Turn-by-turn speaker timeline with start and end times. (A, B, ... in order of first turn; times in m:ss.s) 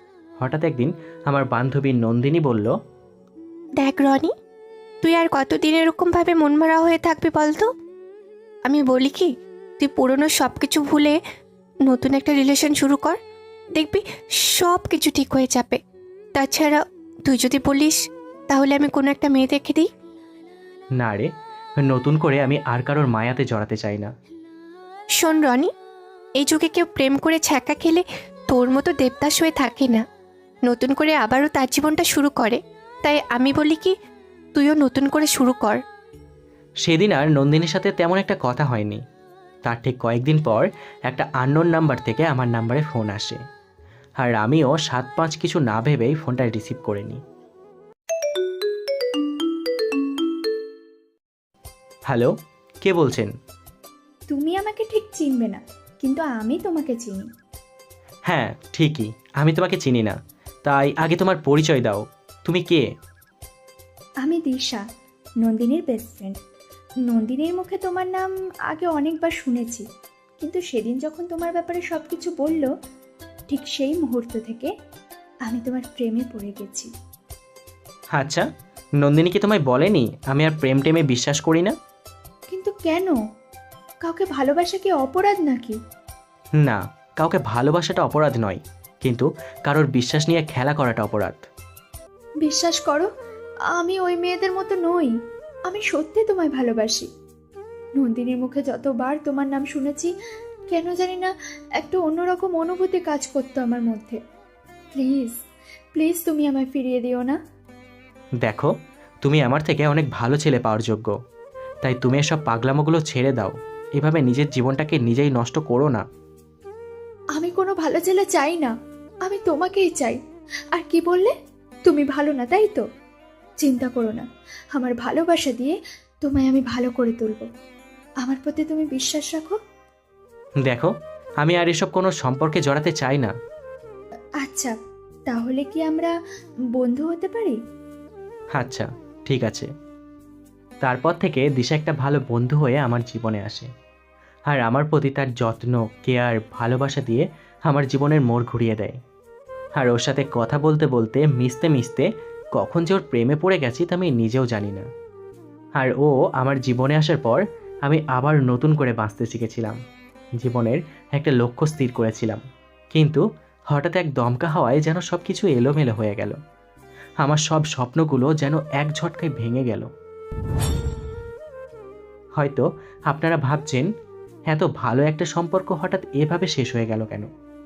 0:00.4-0:02.7 A
0:03.8-0:04.3 B
0:05.0-0:07.7 B
0:08.7-0:11.2 B
0:11.8-0:13.2 B
0:13.8-0:15.8 B
0:16.3-0:19.9 B
0:21.0-0:24.1 A
0:25.2-0:25.7 B
0:26.4-0:30.0 B
0:30.7-0:33.9 B
0:34.5-0:35.8 B
0:36.8-0:39.0 A
0:39.6-0:43.4 A
0:44.2-0:47.2 A
0:52.8-0:53.3 A
0:54.3-0:57.2 C
0:58.3-1:02.8 A
1:04.2-1:04.8 C
1:05.4-1:06.4 C
1:07.1-1:09.8 C
1:10.4-1:12.7 C
1:13.5-1:14.7 C
1:15.5-1:16.9 C
1:18.1-1:18.4 A
1:19.0-1:21.7 A
1:22.5-1:23.2 C
1:24.0-1:25.8 C
1:26.6-1:31.4 A
1:32.4-1:33.1 C
1:33.7-1:35.1 C
1:35.7-1:37.1 C
1:38.0-1:40.1 C
1:40.7-1:44.2 C
1:44.9-1:45.4 C
1:45.9-1:47.4 C
1:48.4-1:48.7 A
1:49.2-1:51.1 A
1:51.8-1:56.0 A
1:57.4-1:58.7 C
1:59.2-2:00.2 C
2:00.7-2:01.3 C
2:01.8-2:02.8 C
2:03.6-2:07.5 C
2:08.2-2:09.6 C
2:10.6-2:13.3 A
2:14.4-2:14.7 C
2:15.3-2:16.1 C
2:16.8-2:17.6 C
2:18.5-2:19.7 A
2:20.8-2:23.7 A
2:24.5-2:29.0 A
2:29.8-2:34.8 A
2:35.8-2:39.8 A
2:40.4-2:42.4 A
2:42.9-2:46.4 A
2:47.2-2:49.9 A
2:52.4-2:53.9 A
2:54.5-2:57.3 A